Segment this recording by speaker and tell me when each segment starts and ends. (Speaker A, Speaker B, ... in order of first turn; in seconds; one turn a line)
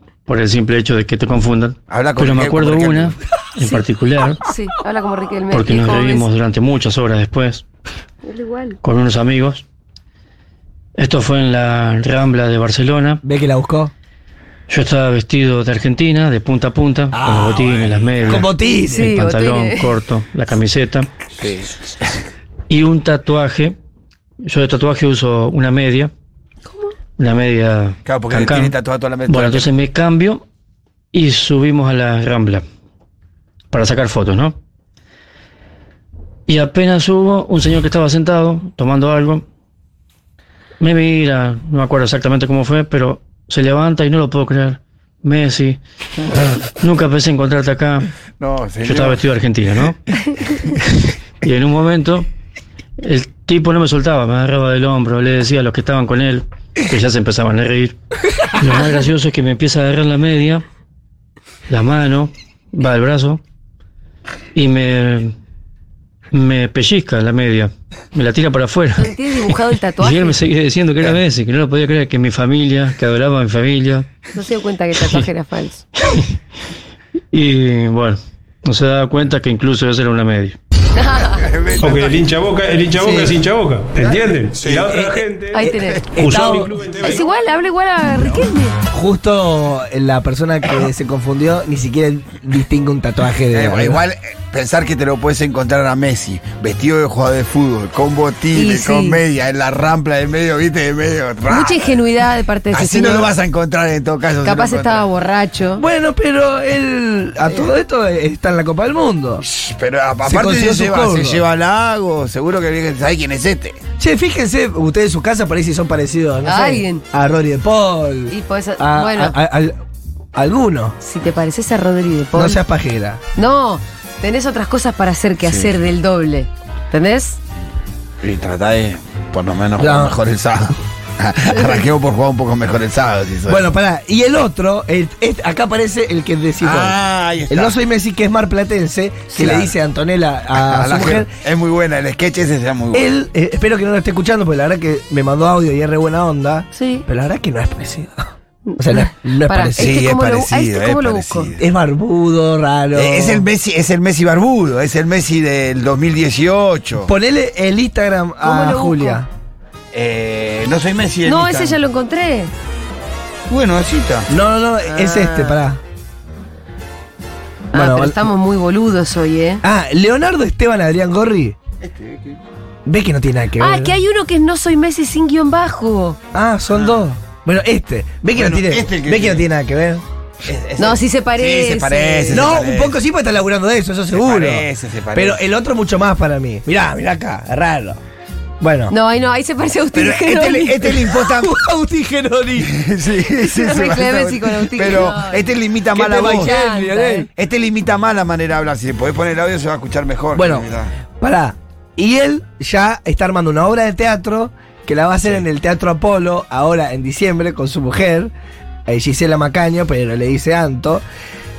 Speaker A: 0.3-4.4
Speaker B: 1.9-3.1
Speaker C: 4.4-6.3
Speaker A: 5.5-7.6
Speaker C: 8.2-8.8
Speaker A: 8.8-9.6
Speaker A: 11.0-13.2
Speaker D: 13.2-13.9
Speaker A: 14.7-21.1
Speaker D: 17.1-19.1
Speaker C: 18.8-19.9
Speaker B: 21.4-21.7
Speaker A: 22.7-23.8
Speaker A: 24.4-26.1
Speaker A: 27.2-30.4
Speaker B: 28.1-29.7
Speaker A: 31.1-32.6
Speaker A: 33.7-34.5
Speaker A: 36.5-39.4
Speaker A: 40.8-45.8
Speaker A: 46.4-48.1
Speaker B: 48.4-49.2
Speaker A: 48.8-52.3
Speaker A: 53.0-60.6
Speaker A: 61.7-63.4
Speaker A: 64.5-65.3
Speaker A: 66.3-74.2
Speaker C: 69.0-70.4
Speaker C: 74.3-75.8
Speaker A: 75.0-75.2
Speaker A: 77.3-80.6
Speaker C: 81.0-81.4
Speaker B: 81.3-82.2
Speaker E: 81.8-85.6
Speaker D: 83.0-83.4
Speaker B: 84.6-85.0
Speaker D: 84.8-85.2
Speaker C: 85.5-88.7
Speaker D: 86.2-86.7
Speaker E: 86.2-87.2
Speaker D: 88.9-94.0
Speaker B: 93.5-102.0
Speaker C: 98.5-99.2
Speaker C: 101.5-103.3
Speaker B: 102.7-105.0
Speaker C: 104.4-105.8
Speaker D: 105.8-109.4
Speaker B: 109.4-113.8
Speaker D: 110.2-111.4
Speaker D: 114.0-119.8
Speaker C: 116.4-117.0
Speaker C: 118.3-119.4
Speaker D: 120.3-121.0
Speaker C: 121.0-122.6
Speaker D: 122.3-123.2
Speaker C: 123.3-127.4
Speaker B: 125.4-125.7
Speaker B: 128.2-133.7
Speaker D: 129.8-130.2
Speaker C: 131.5-131.8
Speaker D: 133.5-137.0
Speaker B: 136.6-137.8
Speaker D: 137.5-141.3
Speaker B: 139.3-139.7
Speaker B: 140.6-143.1
Speaker D: 142.9-149.9
Speaker C: 146.7-147.0
Speaker C: 148.7-151.5
Speaker B: 149.8-151.6
Speaker D: 151.6-153.5
Speaker B: 152.9-157.1
Speaker D: 157.0-159.3
Speaker C: 158.4-159.2
Speaker B: 159.9-161.8
Speaker C: 161.2-162.5
Speaker B: 163.5-164.3
Speaker D: 164.3-165.8
Speaker C: 164.8-165.6
Speaker C: 167.7-169.6
Speaker D: 167.7-168.2
Speaker D: 169.6-171.6
Speaker B: 171.8-172.4
Speaker D: 172.8-174.0
Speaker C: 173.6-176.2
Speaker D: 176.3-180.0
Speaker B: 178.3-179.4
Speaker B: 180.4-183.0
Speaker C: 180.8-182.6
Speaker D: 182.3-188.0
Speaker B: 184.1-185.4
Speaker D: 188.6-188.9
Speaker C: 188.9-191.0
Speaker B: 189.9-191.5
Speaker D: 190.9-192.7
Speaker B: 192.6-196.6
Speaker C: 193.5-195.5
Speaker D: 195.9-197.3
Speaker C: 196.2-197.3
Speaker B: 197.3-200.9
Speaker D: 200.3-200.7
Speaker D: 201.2-208.3
Speaker D: 208.9-211.0